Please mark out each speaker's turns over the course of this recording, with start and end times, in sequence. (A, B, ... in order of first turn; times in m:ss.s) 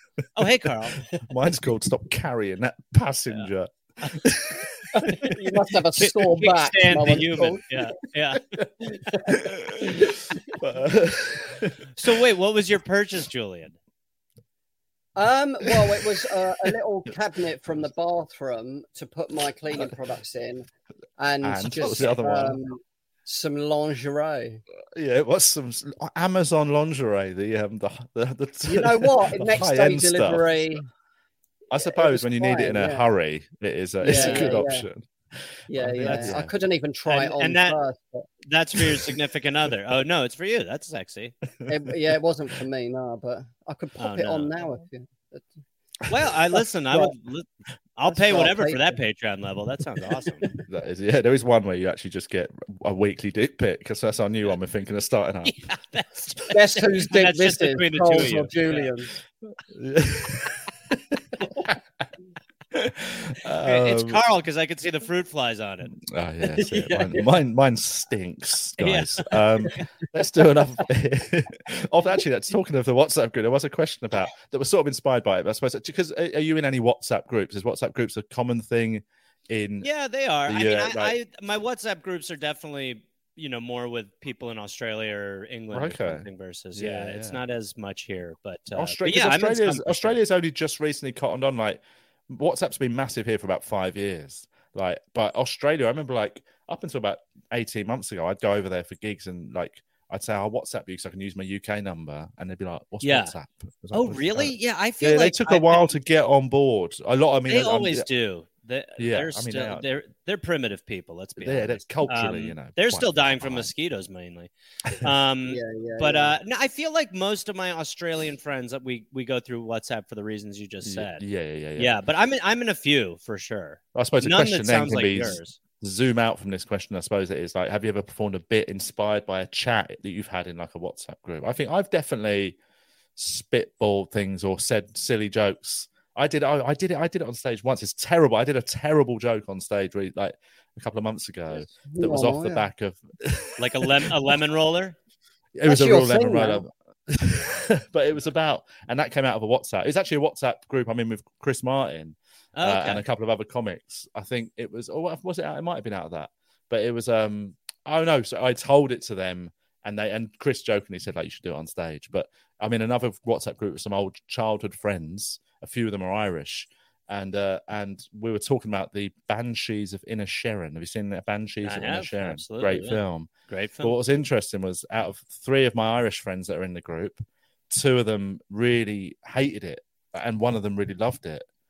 0:00.4-0:01.0 A
0:01.1-0:05.0 B
0:05.0-0:07.7 C
0:05.1-0:05.3 A
0:06.0-0:08.4 A
0:08.9-0:09.4 C
0:09.3-0:11.8 B
0:12.0-0:13.8 A
0:15.2-0:20.7 C
0:21.2-0:24.6 C
0:21.4-0:22.6 B
0:24.9-0:30.8 B
0:28.7-0:30.8 C
0:31.7-0:36.5 B
0:31.8-0:33.1 C
0:34.0-0:34.9 C
0:34.1-0:34.6 A
0:35.7-0:38.3 C
0:36.0-0:36.4 A
0:37.1-0:37.8 A
0:38.5-0:41.3 A
0:41.6-0:42.2 B
0:41.7-0:45.5 C
0:44.0-0:44.5 A
0:46.1-0:50.5 A
0:48.1-0:49.0 C
0:50.6-0:55.6 B
0:55.4-0:58.9 A
0:56.5-0:59.1 C
0:59.7-1:00.6 B
1:02.7-1:04.2 B
1:03.6-1:05.9 A
1:05.9-1:19.9 B
1:06.7-1:07.2 C
1:08.8-1:09.8 A
1:19.8-1:30.2 A
1:20.5-1:21.2 B
1:25.7-1:27.4 B
1:28.8-1:48.0 B
1:43.0-1:43.3 A
1:43.9-1:45.9 A
1:47.5-2:01.2 A
1:49.0-1:49.9 B
1:51.4-1:53.7 B
1:54.8-1:55.1 B
1:55.5-1:56.4 C
2:00.8-2:02.0 B
2:01.8-2:05.6 A
2:03.9-2:12.6 B
2:13.2-2:23.9 B
2:21.7-2:22.6 C
2:23.6-2:25.0 A
2:25.6-2:53.3 B
2:25.7-2:26.6 C
2:32.6-2:33.0 A
2:51.6-2:54.0 A
2:53.8-3:01.5 B